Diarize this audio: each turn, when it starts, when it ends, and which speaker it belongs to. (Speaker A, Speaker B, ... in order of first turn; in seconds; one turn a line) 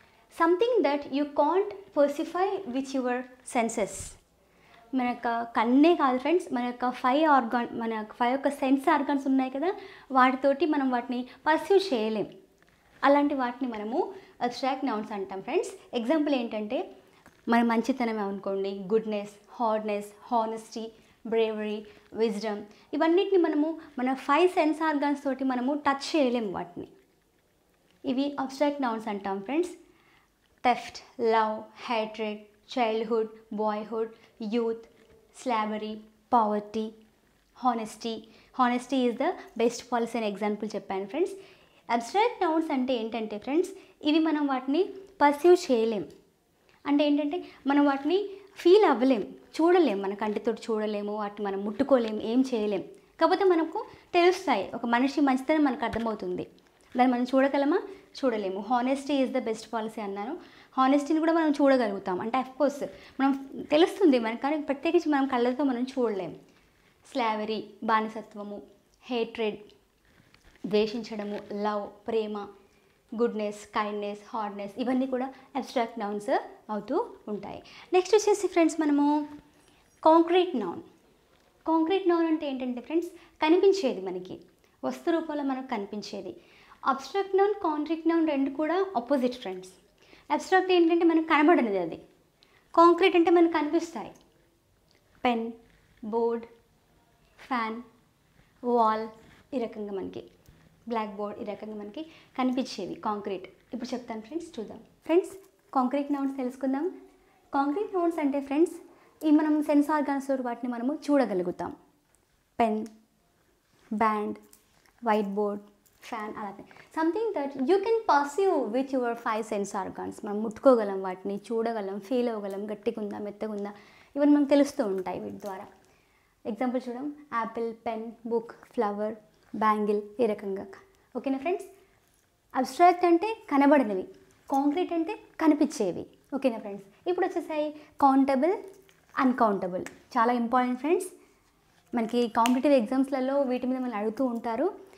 Speaker A: 0.4-4.2
Speaker A: 4.9-12.3
Speaker A: 13.0-16.8
Speaker A: 17.5-26.9
Speaker A: 28.1-29.8
Speaker A: 30.6-36.9
Speaker A: 37.6-41.3
Speaker A: 41.9-46.1
Speaker A: 46.9-66.3
Speaker A: 67.1-69.6
Speaker A: 70.7-72.5
Speaker A: 73.2-79.2
Speaker A: 80.0-80.8
Speaker A: 81.7-86.3
Speaker A: 86.9-89.8
Speaker A: 90.3-92.0
Speaker A: 92.7-94.2
Speaker A: 95.2-95.5
Speaker A: 96.1-96.5
Speaker A: 97.4-97.8
Speaker A: 98.7-100.2
Speaker A: 100.9-106.9
Speaker A: 107.5-111.8
Speaker A: 112.6-112.9
Speaker A: 114.0-114.4
Speaker A: 115.0-125.7
Speaker A: 126.5-131.7
Speaker A: 132.6-138.6
Speaker A: 139.2-141.1
Speaker A: 141.9-144.7